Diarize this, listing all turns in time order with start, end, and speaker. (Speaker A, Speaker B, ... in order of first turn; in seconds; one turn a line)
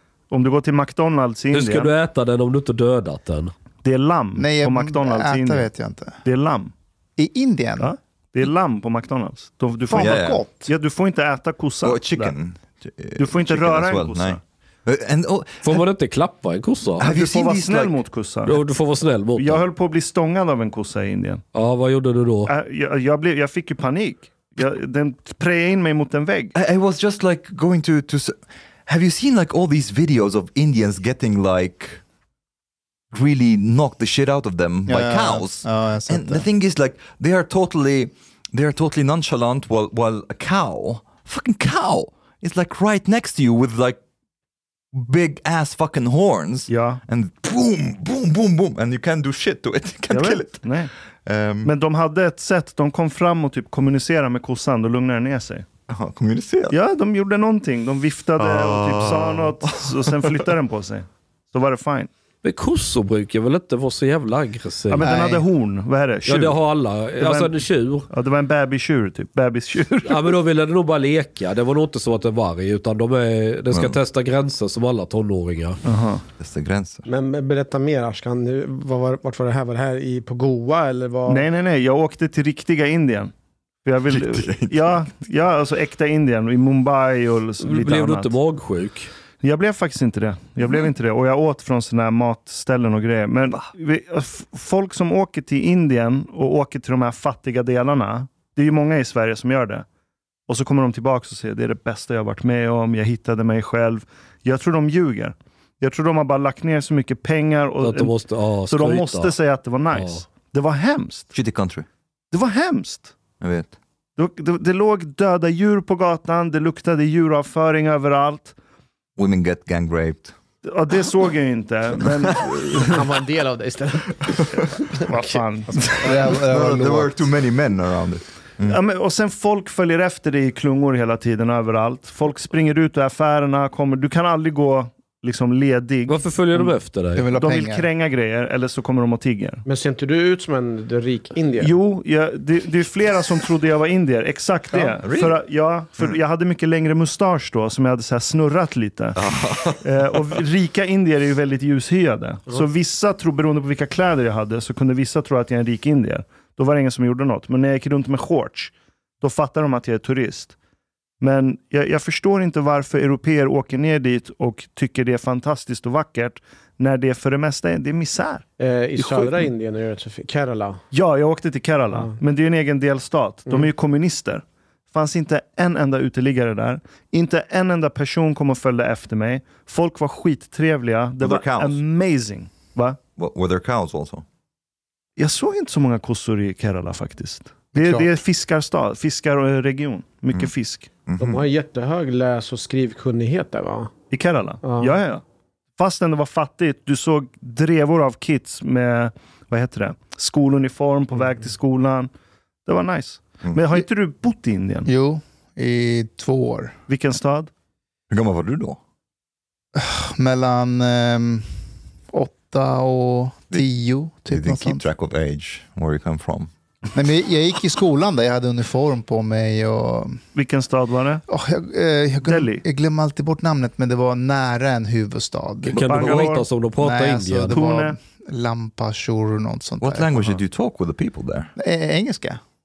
Speaker A: 0.3-1.9
Speaker B: 1.5-3.5
Speaker A: 3.8-5.7
Speaker C: 4.4-6.2
Speaker A: 6.2-6.7
Speaker C: 7.2-7.9
Speaker A: 7.8-12.3
Speaker C: 9.9-10.7
Speaker D: 9.9-10.4
Speaker D: 11.8-15.8
Speaker A: 13.2-14.4
Speaker B: 15.6-17.1
Speaker D: 17.0-18.0
Speaker A: 17.0-18.6
Speaker B: 18.5-19.6
Speaker A: 19.4-21.4
Speaker B: 21.5-22.5
Speaker A: 22.5-26.5
Speaker D: 26.6-32.0
Speaker D: 33.1-44.0
Speaker C: 34.9-36.5
Speaker D: 44.9-50.8
Speaker A: 46.7-47.0
Speaker A: 50.1-50.9
Speaker D: 51.3-51.7
Speaker A: 51.6-55.7
Speaker D: 55.9-56.8
Speaker A: 56.7-62.1
Speaker D: 58.4-60.3
Speaker B: 62.4-65.2
Speaker A: 64.9-66.6
Speaker B: 66.3-68.1
Speaker A: 67.2-70.3
Speaker B: 70.0-75.8
Speaker D: 73.7-74.0
Speaker A: 75.8-76.2
Speaker D: 76.4-77.0
Speaker E: 77.1-81.5
Speaker A: 81.3-83.3
Speaker A: 83.8-88.3
Speaker D: 84.1-85.0
Speaker B: 87.6-89.1
Speaker A: 89.4-99.9
Speaker A: 100.5-108.1
Speaker B: 107.8-109.3
Speaker A: 108.7-111.3
Speaker B: 109.9-110.2
Speaker D: 111.3-111.9
Speaker A: 112.3-113.1
Speaker D: 113.4-113.7
Speaker A: 114.2-118.5
Speaker D: 119.2-120.3
Speaker A: 120.6-123.0
Speaker D: 122.2-122.5
Speaker E: 122.8-124.3
Speaker E: 124.9-126.0
Speaker A: 125.0-125.9
Speaker D: 126.0-128.8
Speaker C: 126.0-127.2
Speaker A: 128.7-136.2
Speaker B: 136.1-137.3
Speaker C: 137.2-137.9
Speaker A: 137.4-139.6
Speaker E: 139.7-141.7
Speaker A: 141.6-149.2
Speaker D: 145.0-145.4
Speaker D: 149.2-149.8
Speaker A: 149.8-160.6
Speaker A: 161.2-168.4
Speaker E: 168.6-170.8
Speaker A: 169.0-169.5
Speaker A: 170.9-183.0
Speaker D: 181.2-181.8
Speaker D: 183.2-184.2
Speaker A: 185.2-190.9
Speaker C: 187.8-188.1
Speaker D: 191.1-191.4
Speaker E: 191.2-193.9
Speaker A: 194.1-195.2
Speaker E: 194.6-194.9
Speaker A: 195.8-202.1
Speaker A: 202.7-204.9
Speaker C: 204.9-206.7
Speaker A: 206.9-207.5
Speaker D: 208.1-208.8
Speaker C: 209.8-211.5
Speaker C: 212.1-214.9
Speaker D: 214.3-216.5
Speaker C: 216.9-220.2
Speaker A: 220.3-221.2
Speaker C: 221.3-226.2
Speaker A: 222.3-222.6
Speaker B: 225.7-227.6
Speaker A: 225.8-226.5
Speaker C: 226.8-230.4
Speaker A: 227.5-228.0
Speaker D: 229.8-231.5
Speaker C: 231.6-232.4